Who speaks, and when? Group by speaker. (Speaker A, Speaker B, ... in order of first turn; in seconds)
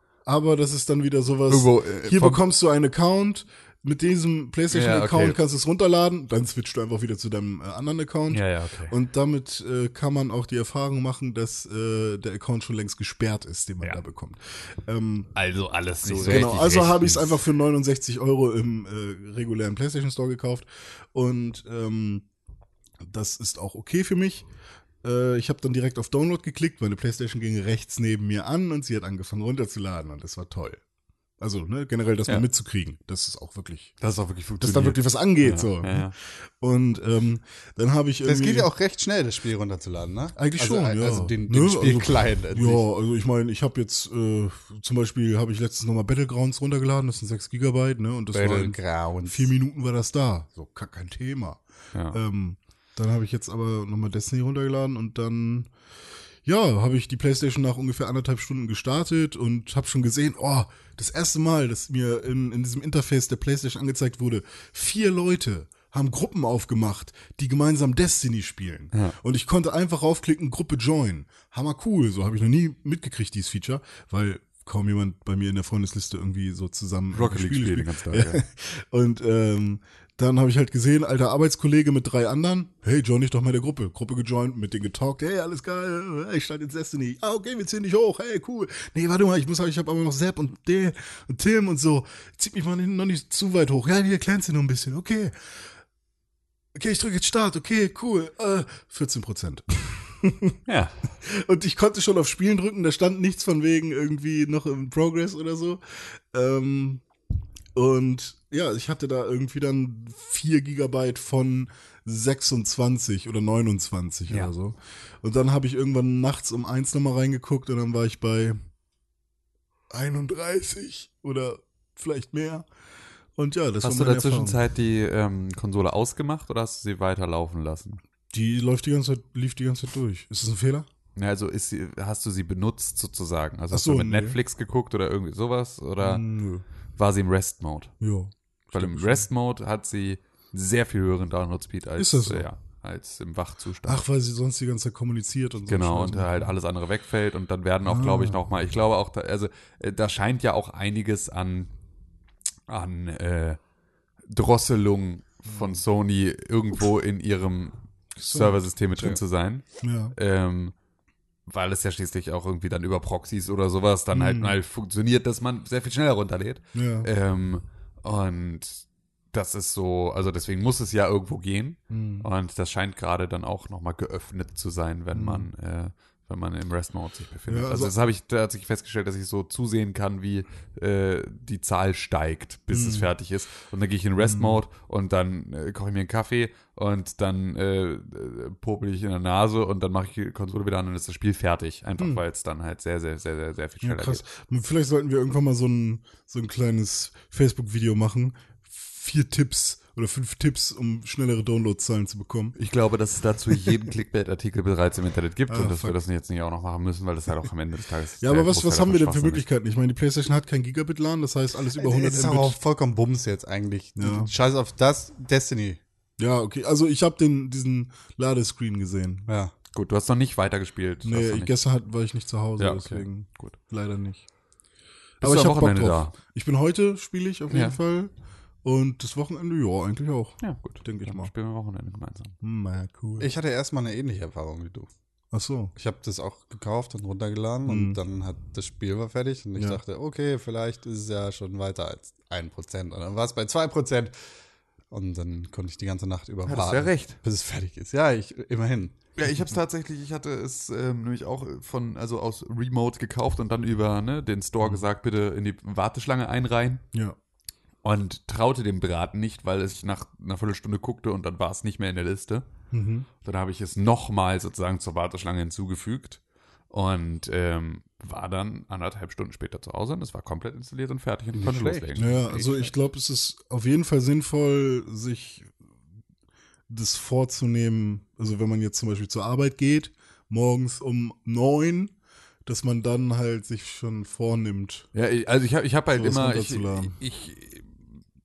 Speaker A: 0.3-15.3, 16.0-22.3, 23.0-24.4, 25.0-30.8, 31.4-33.9, 34.6-38.7, 40.4-55.7, 56.4-95.3, 96.7-100.6, 101.2-107.0, 107.8-118.6, 119.9-122.7, 123.4-124.6, 128.3-130.9, 133.7-134.4, 136.0-136.6, 138.0-139.3, 142.0-142.5, 143.8-146.5, 147.8-148.4, 155.5-155.8, 158.2-159.2, 159.8-160.2, 164.1-164.6, 166.7-167.1, 171.9-172.3, 175.1-175.5, 177.5-177.9, 182.7-183.1, 184.2-184.6, 193.8-202.6, 205.5-206.0, 208.2-212.6, 214.0-214.3, 216.2-219.3, 221.0-224.2, 225.2-228.1, 228.6-231.3, 232.4-233.3, 235.3-235.7, 237.7-238.0, 262.7-263.1, 272.0-275.5, 276.7-281.9, 282.5-284.9, 285.9-287.0
Speaker B: 1.5-2.4, 4.7-5.4, 8.3-8.9, 15.3-17.4, 34.0-36.1, 51.9-52.2, 77.1-78.4, 100.7-101.0, 114.3-114.5, 123.8-128.0, 131.2-136.2, 137.0-137.9, 138.7-144.0, 145.7-151.7, 152.7-153.6, 154.3-160.7, 161.5-194.2, 202.6-209.4, 219.7-221.5, 222.6-223.6, 225.2-226.1, 227.5-227.8, 230.4-232.4, 246.4-247.2, 249.2-256.8, 257.8-262.5, 263.2-272.1, 284.9-287.8
Speaker C: 38.2-42.8, 48.3-49.5, 211.8-215.8, 219.3-219.5, 233.2-234.9, 235.8-244.1, 244.9-249.0, 271.3-272.7